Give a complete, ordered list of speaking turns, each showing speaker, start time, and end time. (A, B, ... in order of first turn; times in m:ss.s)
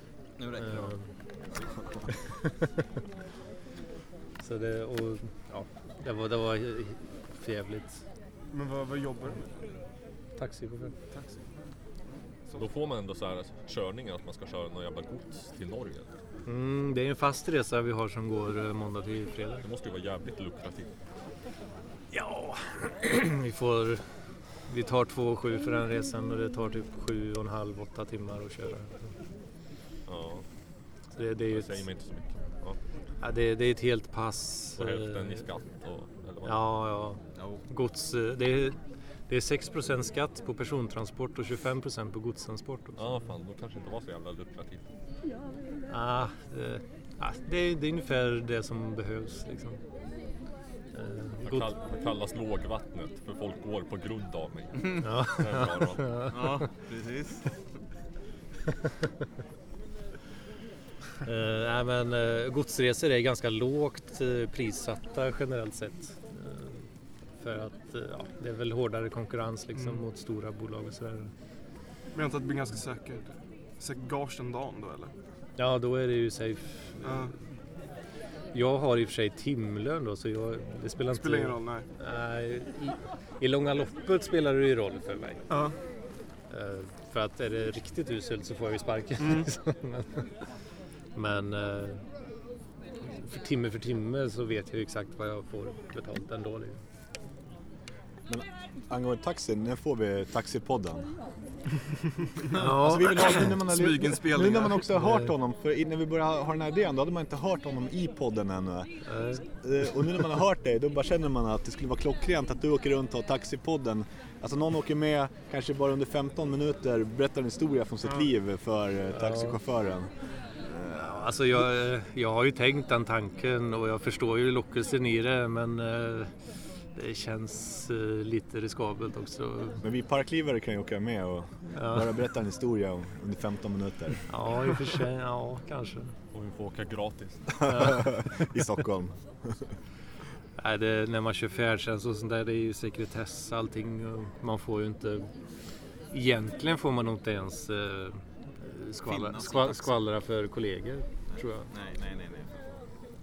0:00.4-0:00.9 A
0:00.6-0:01.0 B
0:04.4-0:08.0 B
0:08.5-0:09.7 C
0:10.4-0:10.9 B
0:11.1-0:11.5 C
0:12.5-0:16.1 D
0:16.4-0:19.6 B
0:19.6-0:20.9 D
0:22.1-0:24.0 B
0:24.7-0:29.1 B
0:30.1-0:30.4 D
0:31.2-0:31.8 B
0:31.5-0:32.8 D
0:33.2-0:35.4 B
0:34.8-0:36.6 D
0:36.4-0:43.1 B
0:37.3-0:37.6 A
0:43.0-0:44.8 D
0:45.9-0:49.8 B
0:50.9-0:51.7 B
0:51.4-0:56.2 D
0:55.0-0:56.3 B
0:56.3-0:57.4 A
1:01.2-1:06.8 B
1:07.4-1:11.3 B
1:09.7-1:10.0 C
1:12.1-1:15.1 C
1:15.6-1:17.2 B
1:17.0-1:17.3 C
1:18.5-1:25.4 B
1:21.1-1:21.8 C
1:25.5-1:25.8 C
1:26.5-1:30.3 B
1:29.2-1:29.5 C
1:31.1-1:32.0 B
1:33.2-1:36.8 B
1:38.3-1:41.1 E
1:42.5-1:43.5 B
1:42.6-2:00.1 E
1:43.6-1:44.8 C
1:45.0-1:45.3 B
1:49.1-1:49.4 B
1:59.1-1:59.6 B
2:00.7-2:01.3 E
2:00.9-2:06.3 B
2:06.9-2:09.8 B
2:09.8-2:14.2 E
2:11.8-2:12.1 B
2:14.3-2:16.1 B
2:16.3-2:17.7 D
2:17.6-2:19.6 E
2:20.6-2:25.3 B
2:26.1-2:31.7 B
2:29.0-2:30.0 A
2:31.3-2:32.5 A